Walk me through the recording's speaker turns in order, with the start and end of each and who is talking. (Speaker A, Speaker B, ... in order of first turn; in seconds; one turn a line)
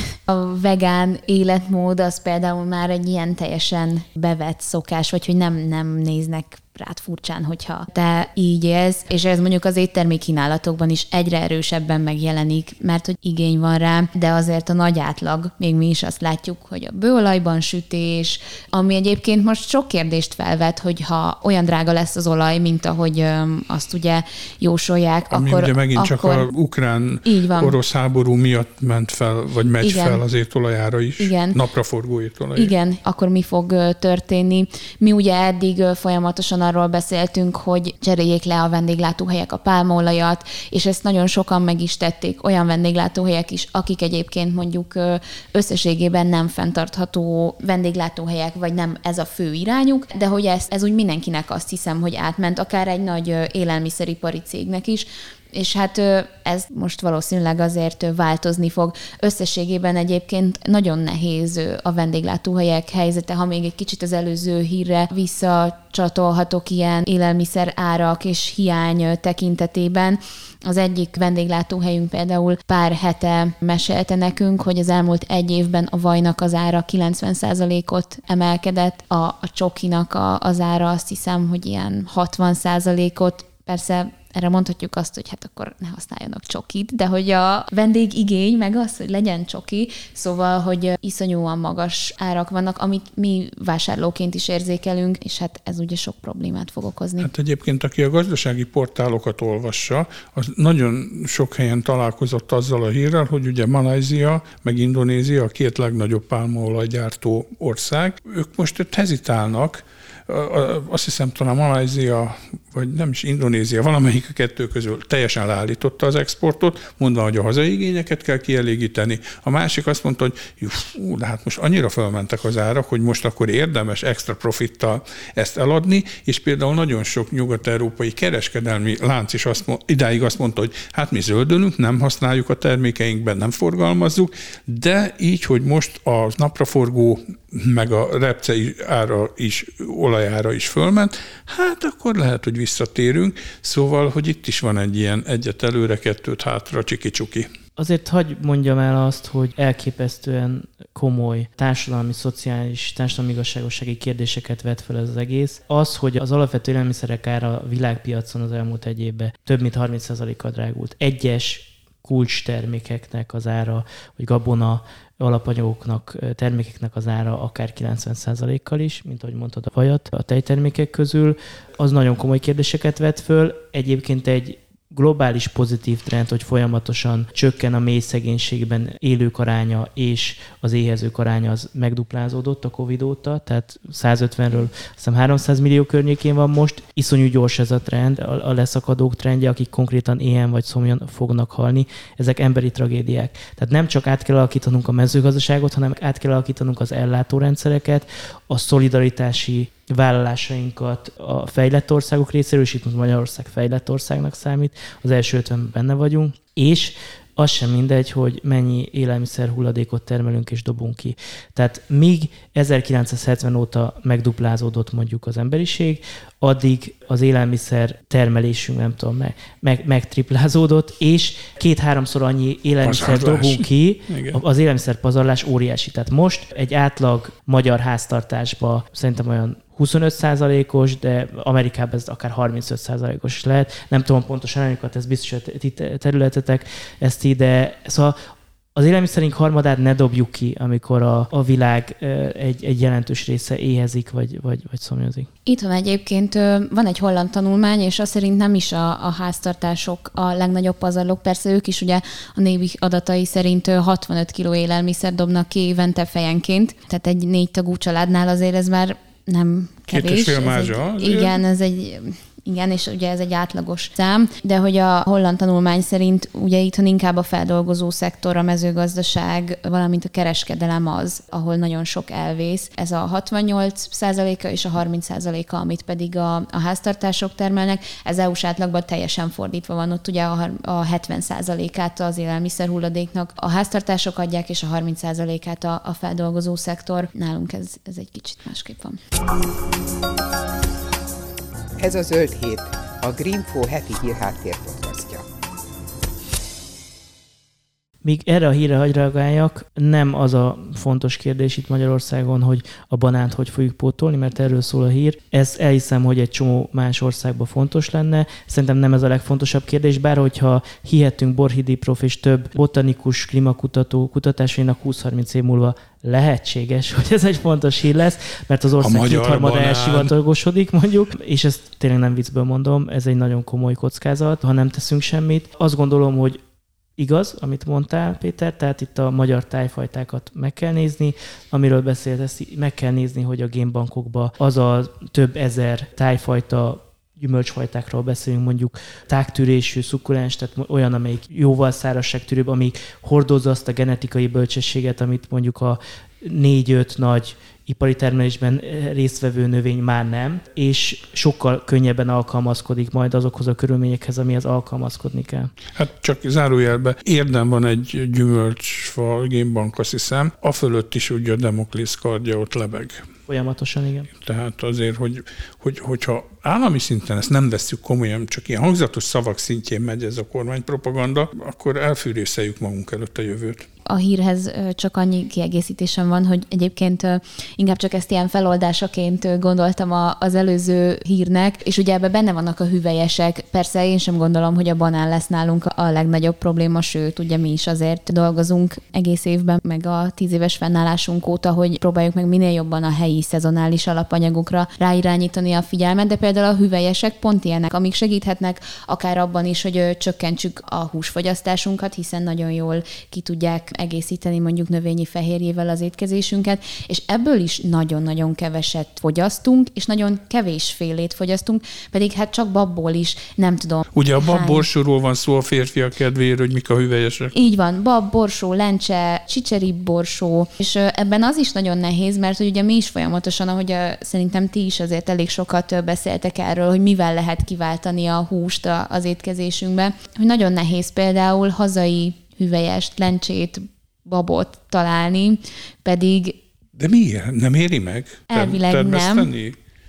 Speaker A: 0.3-26.4
Speaker B: 25.3-32.7
Speaker A: 27.2-27.8
Speaker A: 29.8-30.2
Speaker A: 31.2-31.6
Speaker A: 32.6-97.3
Speaker B: 97.2-147.5
Speaker C: 147.8-238.2
Speaker B: 222.8-224.4
Speaker C: 238.8-245.3
Speaker A: 245.5-289.0
Speaker B: 259.9-261.4
Speaker D: 291.8-295.3
Speaker C: 298.0-326.4
Speaker B: 318.8-320.1
Speaker C: 327.0-355.5
Speaker B: 355.8-363.1
Speaker C: 363.3-364.1
Speaker B: 364.2-373.7
Speaker A: 373.9-414.7
Speaker B: 413.9-417.3
Speaker A: 417.3-436.4
Speaker B: 436.8-439.6
Speaker A: 438.3-439.3